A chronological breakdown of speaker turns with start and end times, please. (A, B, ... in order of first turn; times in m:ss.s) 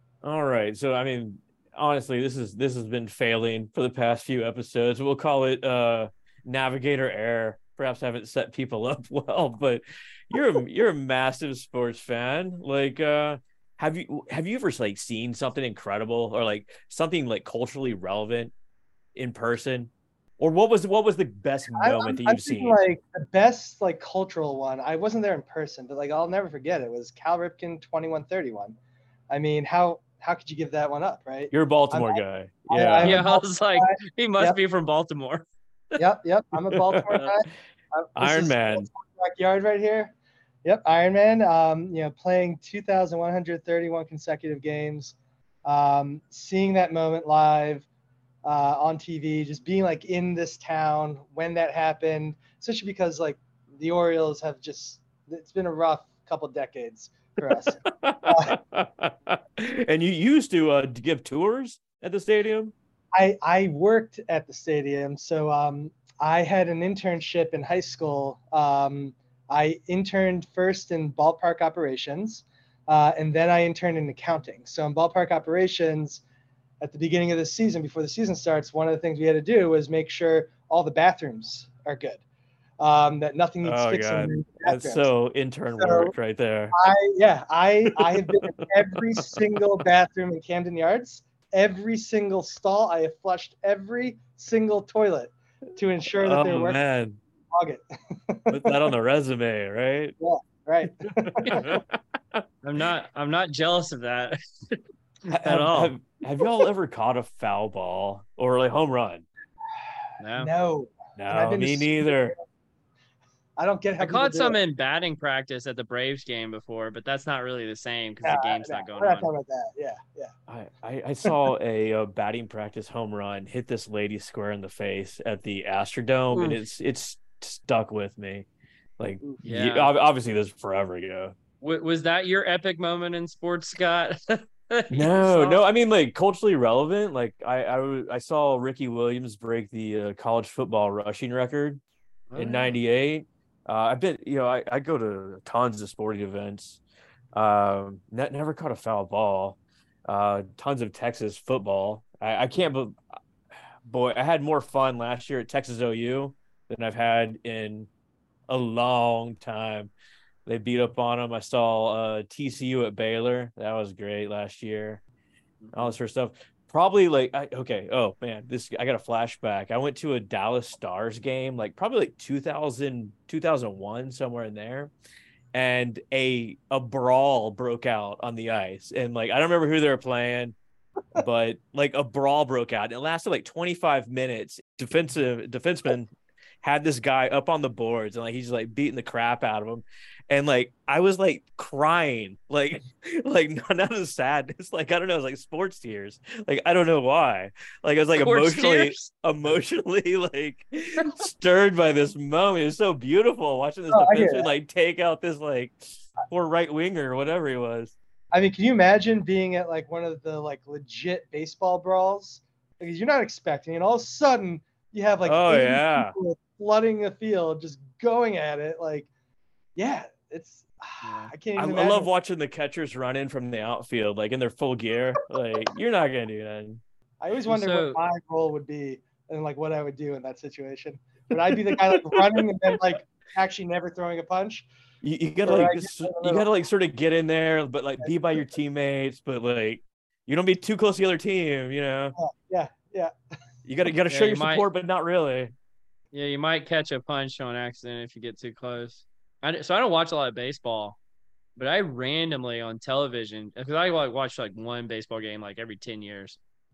0:00.2-0:18.5 A
0:19.1-0:22.8 A
0:21.8-0:28.8 B
0:29.3-0:34.6 B
0:31.5-0:33.2 A
0:33.0-0:36.0 C
0:36.0-0:40.1 B
0:36.7-0:37.2 A
0:38.2-0:38.9 A
0:40.6-0:47.9 B
0:48.4-0:58.6 B
0:57.8-1:02.7 A
1:03.1-1:16.2 B
1:16.8-1:22.2 B
1:22.8-1:25.1 B
1:23.6-1:26.7 A
1:25.8-1:26.1 B
1:26.7-1:36.8 B
1:27.9-1:29.6 A
1:36.2-1:37.2 A
1:37.5-1:38.9 B
1:38.5-1:40.2 A
1:40.2-1:41.7 B
1:41.4-1:42.4 A
1:42.6-1:45.9 C
1:45.3-1:49.2 A
1:50.2-1:50.5 C
1:50.4-1:52.4 B
1:51.2-1:52.3 A
1:53.6-1:54.6 B
1:54.0-1:59.3 C
1:58.2-2:00.3 B
2:00.5-2:08.5 A
2:09.0-2:11.3 A
2:09.4-2:09.9 C
2:11.6-2:15.6 C
2:14.9-2:21.8 A
2:22.3-2:22.8 C
2:22.4-2:26.8 A
2:27.3-2:33.0 A
2:33.8-2:37.9 A
2:38.5-2:39.9 A
2:40.4-2:45.0 A
2:45.6-2:45.9 C
2:45.7-2:54.9 A
2:55.5-3:00.6 A
3:01.1-3:06.1 A
3:06.6-3:27.9 A
3:18.2-3:19.1 C
3:23.9-3:24.5 B
3:28.3-3:39.1 B
3:35.2-3:36.1 A
3:39.8-3:42.1 B
3:41.0-3:41.3 C
3:41.6-3:46.8 A
3:47.2-3:54.7 B
3:47.5-3:48.0 C
3:51.9-3:52.4 A
3:55.0-4:02.1 A
3:55.4-3:56.5 B
4:02.2-4:03.1 B
4:03.6-4:05.5 A
4:04.1-4:04.6 C
4:06.1-4:11.0 C
4:11.6-4:16.4 C